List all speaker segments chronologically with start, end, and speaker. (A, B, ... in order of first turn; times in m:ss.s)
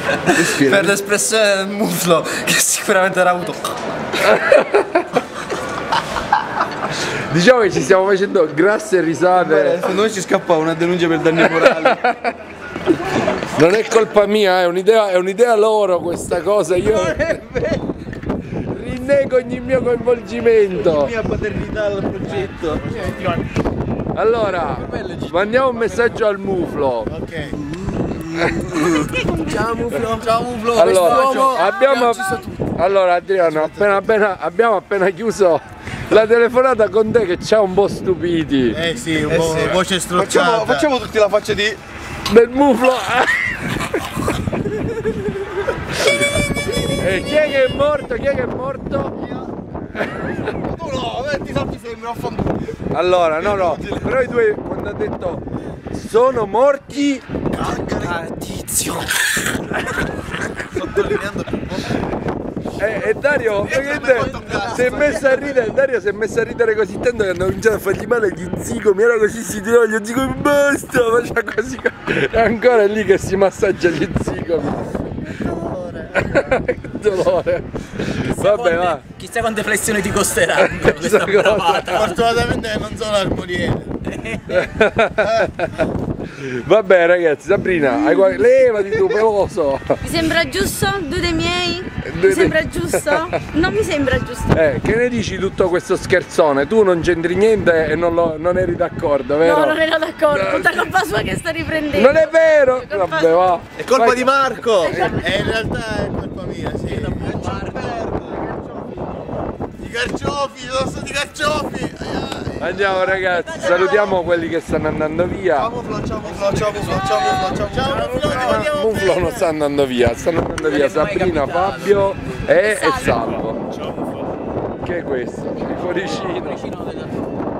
0:00.3-0:01.0 A
0:00.3-0:03.6 B
0:04.2-0:05.1 A
0:07.2-0:09.8 A
0:09.3-0:12.0 B
0:11.8-0:12.3 A
0:13.4-0:17.2 A
0:16.9-0:17.8 B
0:18.6-0:21.1 A
0:20.9-0:23.4 B
0:24.1-0:27.1 A
0:24.6-0:26.0 B
0:27.1-0:27.6 C
0:27.7-0:32.7 B
0:28.3-0:28.7 A
0:30.7-0:38.8 A
0:31.0-0:31.5 D
0:31.6-0:32.4 E
0:33.5-0:34.1 C
0:38.7-0:40.9 C
0:39.3-0:41.8 B
0:42.3-0:44.0 A
0:46.8-0:49.1 A
0:49.2-0:49.5 B
0:50.2-0:52.6 B
0:52.9-0:57.3 A
0:53.4-0:54.1 B
0:57.5-0:58.9 B
0:57.7-0:59.1 D
1:00.6-1:02.0 B
1:02.8-1:15.0 A
1:03.1-1:05.6 B
1:15.2-1:16.6 C
1:16.2-1:19.0 A
1:18.2-1:22.1 D
1:20.5-1:22.0 A
1:21.8-1:24.0 C
1:24.2-1:24.6 D
1:24.5-1:29.9 A
1:25.2-1:25.5 C
1:30.0-1:34.6 E
1:32.0-1:33.3 A
1:34.5-1:40.9 A
1:39.4-1:43.4 E
1:41.9-1:44.6 A
1:43.8-1:45.1 B
1:44.8-1:45.3 E
1:45.0-1:48.0 C
1:46.8-1:48.9 B
1:49.8-1:53.2 C
1:52.6-1:55.7 A
1:53.3-1:54.2 E
1:55.5-1:58.6 B
1:56.2-1:57.7 D
1:57.4-1:59.5 C
1:58.0-2:03.6 A
2:00.6-2:02.4 D
2:02.6-2:03.3 E
2:04.8-2:06.6 A
2:05.8-2:07.4 D